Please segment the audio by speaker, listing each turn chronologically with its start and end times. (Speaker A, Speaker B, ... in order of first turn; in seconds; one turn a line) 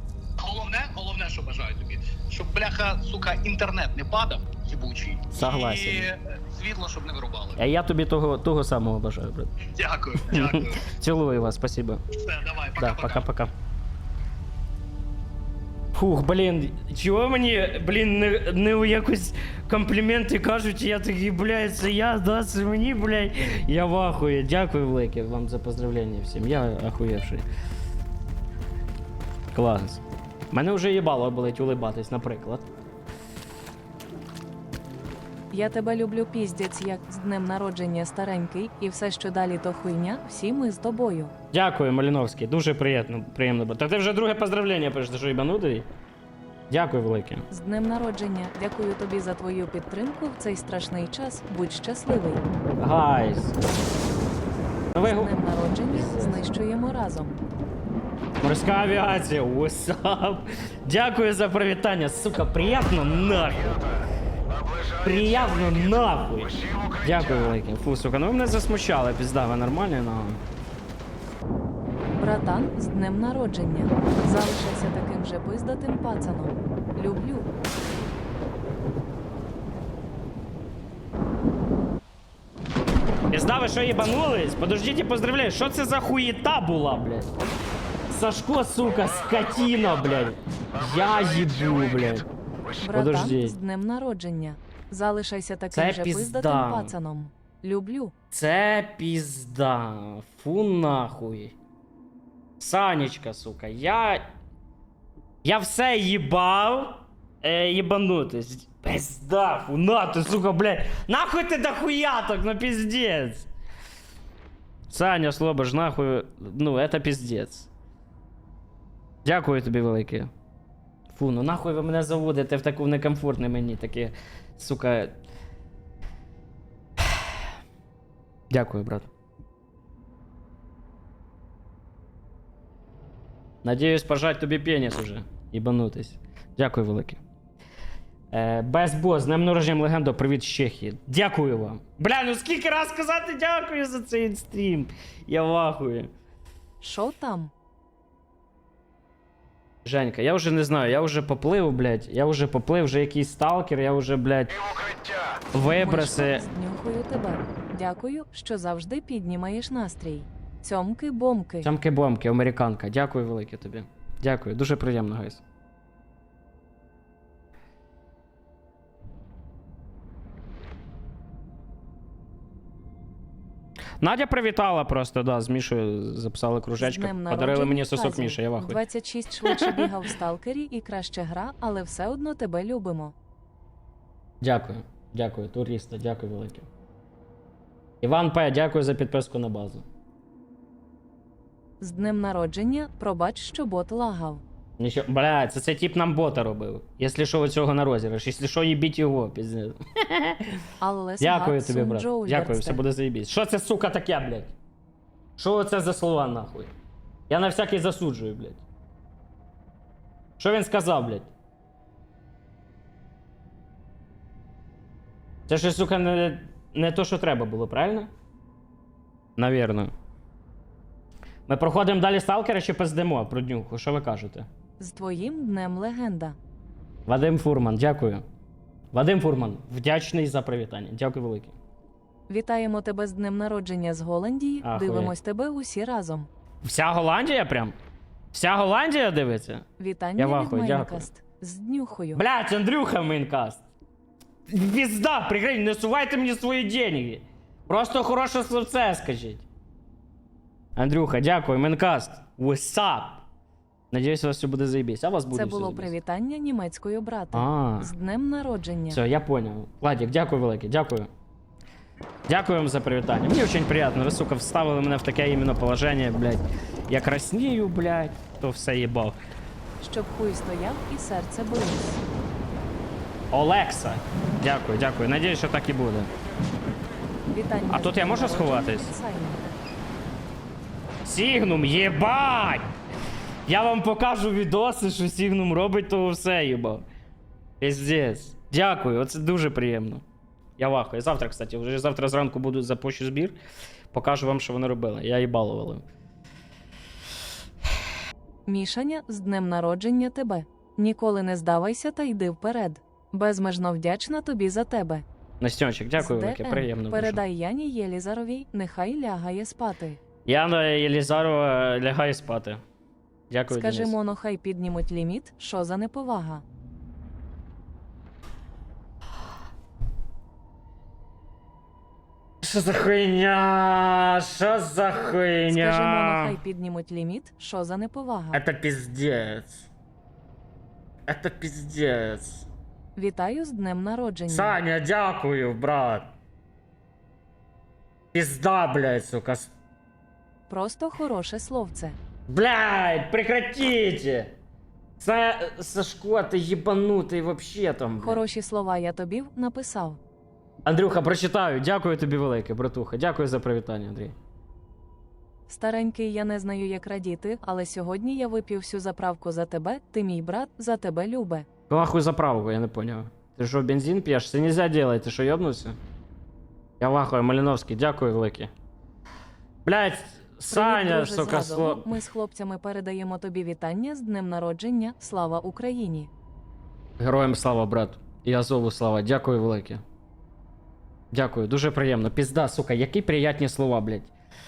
Speaker A: 0.4-7.6
Speaker B: 5.3-6.1
Speaker B: 7.6-9.5
Speaker A: 9.6-10.8
Speaker B: 10.3-12.0
Speaker A: 12.1-13.2
Speaker B: 12.8-13.5
Speaker B: 15.9-27.4
Speaker B: 29.5-30.0
Speaker B: 30.5-32.6
Speaker C: 35.5-41.3
Speaker B: 41.5-45.9
Speaker B: 46.7-47.5
Speaker C: 47.5-52.4
Speaker B: 52.8-53.6
Speaker B: 54.9-55.3
Speaker C: 55.0-57.3
Speaker B: 55.9-56.4
Speaker B: 58.4-63.8
Speaker B: 65.0-70.4
Speaker C: 72.2-77.5
Speaker B: 83.3-87.3
Speaker B: 88.1-92.2
Speaker C: 92.8-98.1
Speaker B: 92.9-93.5
Speaker B: 95.7-96.9
Speaker B: 98.3-101.5
Speaker B: 102.6-104.2
Speaker B: 105.4-113.5
Speaker B: 114.9-117.7
Speaker B: 119.2-120.3
Speaker B: 121.1-125.2
Speaker B: 128.5-129.1
Speaker B: 133.6-137.2
Speaker B: 138.3-146.1
Speaker C: 146.8-147.5
Speaker B: 149.8-154.6
Speaker B: 155.5-156.4
Speaker C: 155.6-161.7
Speaker B: 161.6-165.4
Speaker B: 174.0-178.8
Speaker C: 176.8-183.1
Speaker B: 179.4-179.8
Speaker B: 184.4-186.7
Speaker B: 188.0-189.8
Speaker C: 191.8-194.4
Speaker B: 194.8-200.6
Speaker C: 200.8-202.8
Speaker B: 201.2-204.5
Speaker B: 205.4-206.7
Speaker B: 207.3-208.6
Speaker B: 210.4-211.3
Speaker B: 215.5-218.1
Speaker B: 219.4-219.9
Speaker B: 221.5-224.5
Speaker C: 224.8-226.4
Speaker B: 227.1-228.2
Speaker B: 228.9-231.5
Speaker C: 232.3-236.3
Speaker B: 234.6-235.1
Speaker B: 236.6-237.8
Speaker B: 238.3-239.6
Speaker C: 239.8-242.2
Speaker B: 240.2-241.1
Speaker B: 242.1-243.6
Speaker B: 244.5-249.4
Speaker B: 250.8-253.2
Speaker B: 253.9-255.9
Speaker C: 255.3-259.0
Speaker B: 257.3-257.9
Speaker B: 258.9-261.1
Speaker B: 262.3-269.2
Speaker C: 269.8-272.0
Speaker B: 273.3-276.1
Speaker C: 277.3-279.5
Speaker B: 277.7-278.9
Speaker B: 281.0-282.6
Speaker B: 283.4-286.9
Speaker B: 287.6-290.0
Speaker B: 290.6-293.4
Speaker B: 293.9-295.8
Speaker C: 298.5-305.0
Speaker B: 305.4-307.2
Speaker C: 306.0-310.0
Speaker B: 310.2-312.6
Speaker B: 313.3-313.9
Speaker C: 313.5-316.4
Speaker B: 322.4-326.3
Speaker C: 325.5-328.4
Speaker B: 328.3-329.6
Speaker B: 331.1-332.4
Speaker C: 332.9-334.6
Speaker B: 334.3-336.1
Speaker B: 338.1-339.5
Speaker C: 340.5-342.0
Speaker B: 342.3-344.3
Speaker B: 345.0-348.2
Speaker C: 348.0-350.0
Speaker B: 350.6-354.1
Speaker C: 355.5-361.5
Speaker B: 361.7-365.8
Speaker B: 366.8-368.5
Speaker B: 369.6-371.9
Speaker C: 370.5-376.1
Speaker B: 377.0-379.8
Speaker B: 381.1-384.1